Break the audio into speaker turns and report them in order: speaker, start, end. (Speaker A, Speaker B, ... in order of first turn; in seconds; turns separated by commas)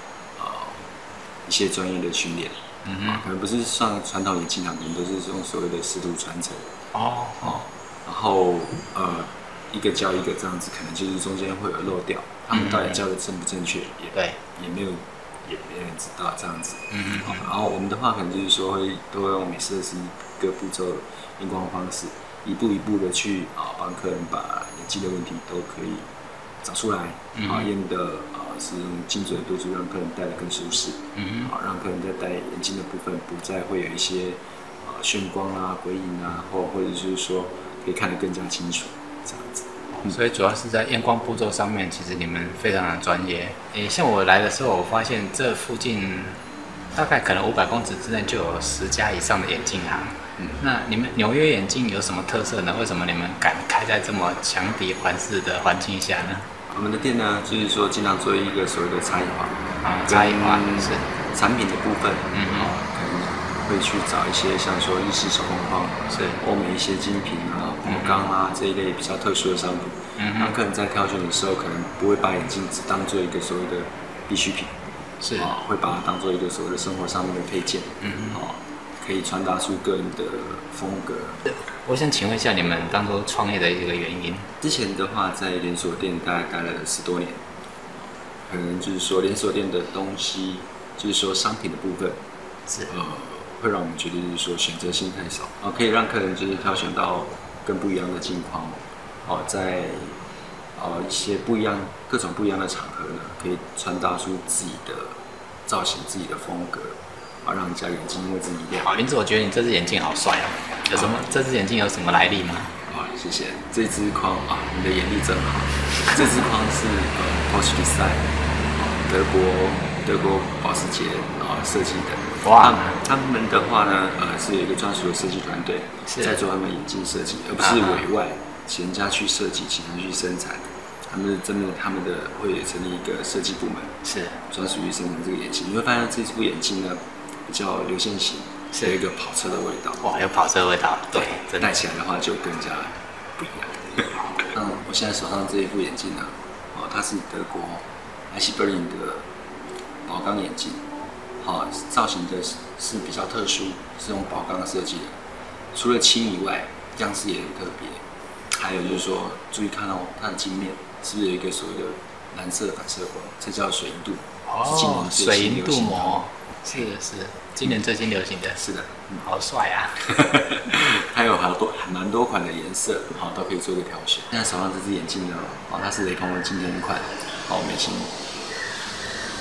Speaker A: 0.4-0.9, Speaker A: 1.4-6.7, Speaker B: 2.9-3.2, Speaker B: 6.9-7.6, Speaker A: 7.4-26.1, Speaker B: 12.5-13.0, Speaker B: 16.9-17.5, Speaker A: 26.6-40.2, Speaker B: 27.4-27.7, Speaker B: 31.2-31.5, Speaker B: 40.0-46.4, Speaker B: 46.9-56.5, Speaker A: 50.4-50.6, Speaker A: 56.7-74.8, Speaker B: 59.8-61.1, Speaker B: 62.3-62.7, Speaker B: 66.1-66.4, Speaker B: 67.8-68.2, Speaker B: 70.2-70.5, Speaker B: 75.2-75.5, Speaker A: 75.3-81.4, Speaker B: 78.0-78.4, Speaker B: 81.5-84.5, Speaker A: 84.6-87.5, Speaker A: 88.0-92.2, Speaker A: 92.9-100.2, Speaker A: 100.8-108.9, Speaker B: 108.8-112.7, Speaker A: 112.8-133.9, Speaker B: 122.4-123.0, Speaker B: 126.1-126.4, Speaker B: 127.6-128.0, Speaker B: 134.0-134.4, Speaker A: 134.5-140.3, Speaker B: 140.0-141.8, Speaker A: 141.1-149.3, Speaker A: 150.1-150.8, Speaker A: 151.4-155.2, Speaker A: 155.7-158.0, Speaker A: 158.6-166.3, Speaker B: 164.4-168.6, Speaker A: 168.6-169.3, Speaker B: 169.2-170.1, Speaker A: 170.0-178.3